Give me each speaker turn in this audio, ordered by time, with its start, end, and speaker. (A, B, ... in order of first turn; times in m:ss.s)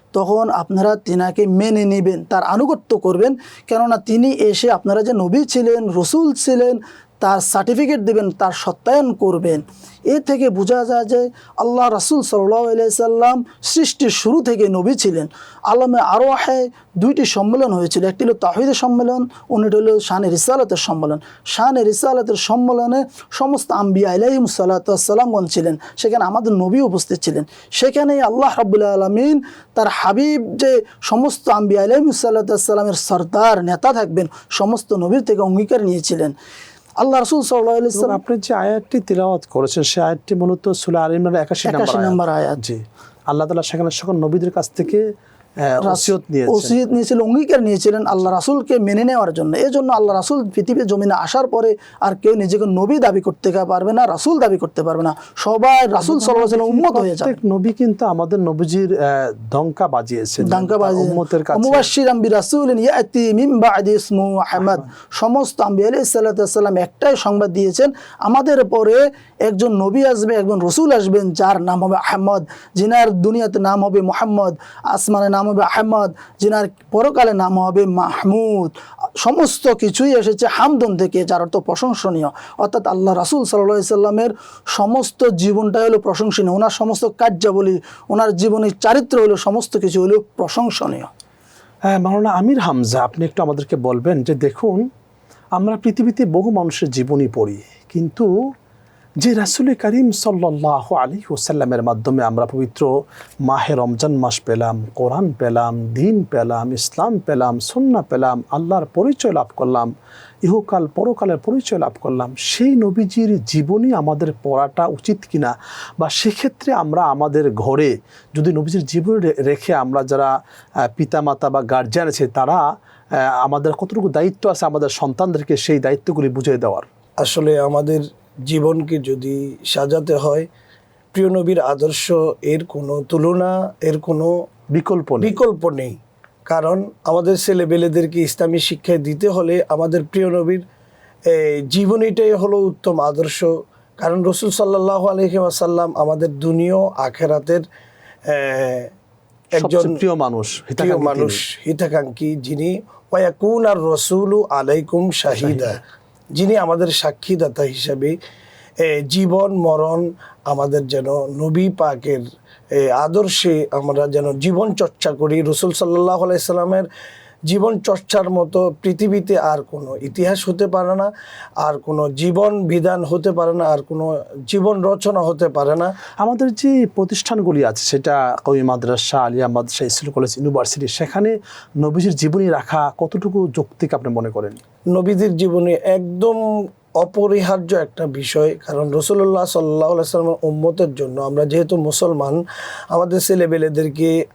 0:00.1-0:36.4 A
0:37.0-0:38.2 A
0:38.0-0:45.0 B
0:41.7-0:42.6 A
0:45.6-0:46.8 B
0:45.8-0:57.4 A
0:56.0-1:01.9 B
1:00.4-1:31.1 A
1:31.9-1:34.8 B
1:35.6-1:38.3 B
1:39.2-1:42.9 B
1:43.5-1:49.9 B
1:50.4-2:00.3 B
2:00.9-2:02.6 B
2:03.2-2:06.9 B
2:07.2-2:10.5 C
2:11.1-2:14.3 C
2:14.7-2:15.4 B
2:15.2-2:16.0 C
2:16.5-2:20.6 C
2:21.3-2:27.6 C
2:28.3-2:28.9 C
2:29.6-2:30.0 C
2:29.6-2:31.4 B
2:30.8-2:35.8 C
2:36.4-2:38.2 C
2:38.8-2:42.2 C
2:42.8-2:46.9 C
2:47.5-2:51.1 C
2:51.6-2:55.9 C
2:56.2-3:04.6 B
3:04.9-3:06.4 C
3:07.0-3:12.4 C
3:12.9-3:14.1 C